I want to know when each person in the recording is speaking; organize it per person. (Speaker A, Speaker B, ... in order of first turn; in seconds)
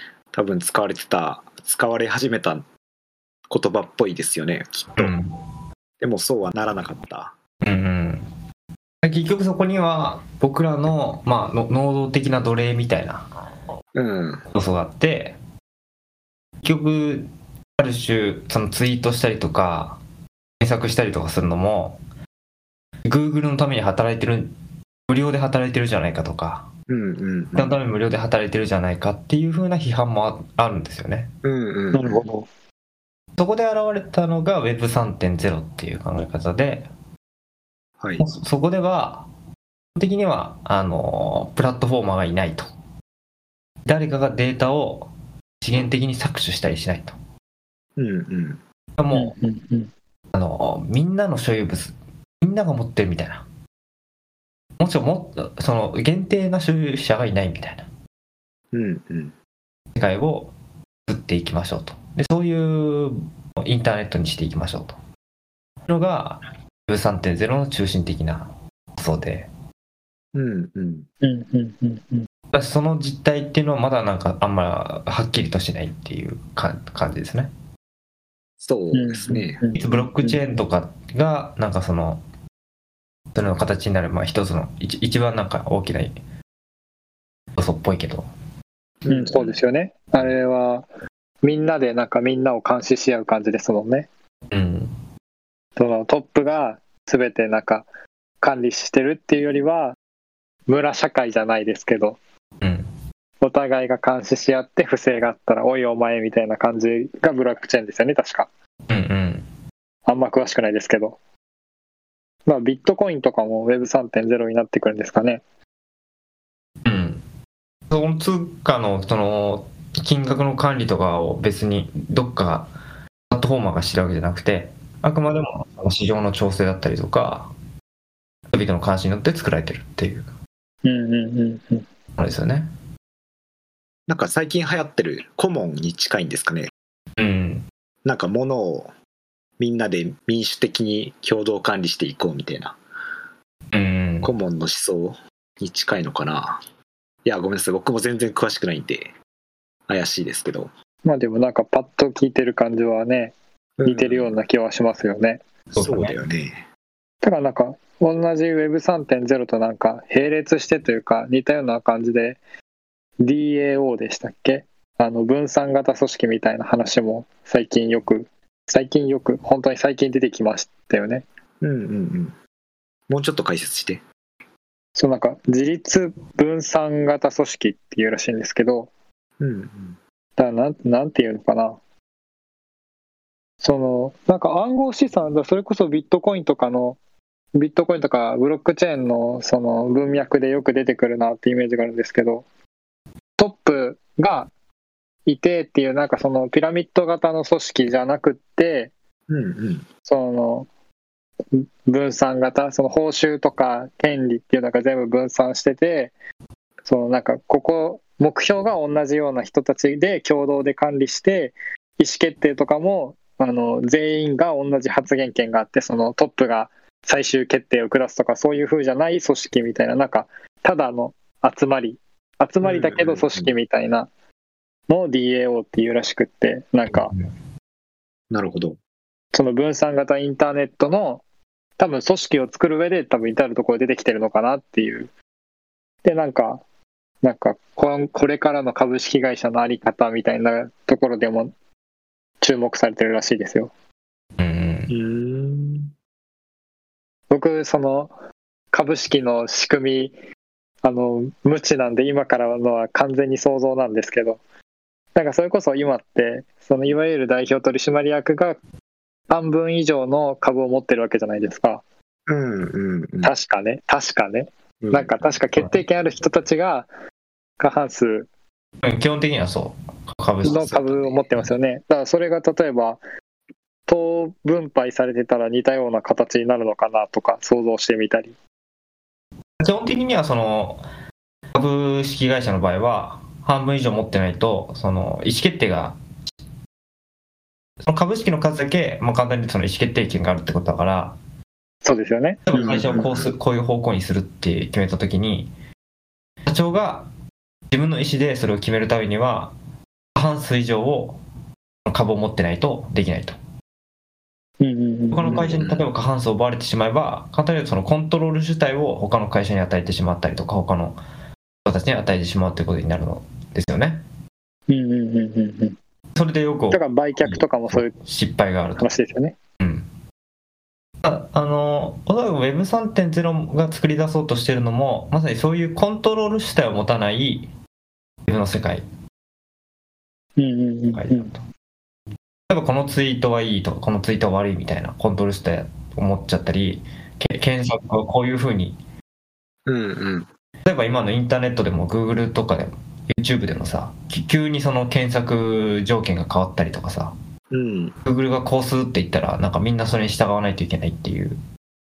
Speaker A: 0.3-2.7, 3.5-5.2, 6.0-7.3, 13.9-14.4, 26.9-27.8, 31.4-32.2, 38.0-38.2, 48.0-48.6, 58.7-59.3, 70.3-71.1, 78.6-79.6, 89.0-89.6, 134.1-136.7, 138.0-138.9, 139.6-142.8, 144.2-146.6, 147.2-149.1, 149.9-150.7, 153.8-154.4, 155.8-156.7, 171.6-172.3, 173.1-174.0, 179.4-180.0, 199.3-199.9, 222.6-223.5, 228.3-228.8, 244.9-245.9, 262.3-263.3, 264.8-265.4, 292.5-293.3, 305.2-305.9, 339.7-340.3, 347.5-347.9
Speaker B: 5.0-5.3, 7.6-8.3, 9.0-13.2, 14.5-15.4, 16.6-20.0, 20.6-22.0, 23.1-24.5, 25.1-26.7, 27.6-31.3, 33.4-36.9, 38.2-39.3, 40.0-42.7, 43.9-45.1, 45.6-47.2, 49.0-49.3, 50.3-53.5, 54.8-57.9, 59.9-60.5, 61.1-65.0, 65.9-69.5, 72.5-77.5, 79.7-82.2, 83.3-86.2, 87.6-88.3, 94.5-94.9, 102.6-102.9, 108.9-109.5, 116.8-117.2, 117.9-122.7, 123.3-127.5, 128.5-130.3, 132.2-132.7, 137.2-137.7, 143.7-144.3, 155.7-156.2, 244.4-244.9, 268.8-271.5, 279.6-280.8, 281.5-286.0, 287.8-291.2, 292.5-295.5, 296.5-297.1, 297.7-299.6, 300.2-301.2, 301.9-303.4, 305.1-311.0, 311.6-314.0, 316.1-318.9, 319.6-319.9, 321.0-327.5, 328.3-328.9, 330.9-331.4, 332.5-338.8, 340.6-347.1, 348.1-351.4
Speaker C: 31.9-32.5, 49.1-49.9, 71.2-72.3, 78.9-80.4, 89.1-90.9, 91.4-94.1, 95.8-97.9, 98.4-100.0, 100.7-102.2, 103.4-108.5, 110.1-111.2, 112.5-115.4, 130.8-131.8, 151.0-155.4, 157.2-162.4, 163.2-171.2, 175.0-178.9, 180.4-181.8, 183.6-187.0, 187.5-192.4, 193.4-194.5, 195.3-198.9, 200.1-200.7, 201.5-206.1, 206.9-224.1, 224.9-227.1, 229.3-231.2, 231.8-235.1, 236.0-236.6, 237.2-241.5, 242.4-243.7, 247.3-248.1, 248.7-250.1, 250.8-254.4, 255.2-258.6, 259.3-261.8, 263.2-266.9, 267.6-268.3, 270.4-273.0, 273.9-278.3, 291.8-292.4, 304.6-305.5, 314.7-315.8, 316.7-317.9, 318.8-319.4, 330.4-331.3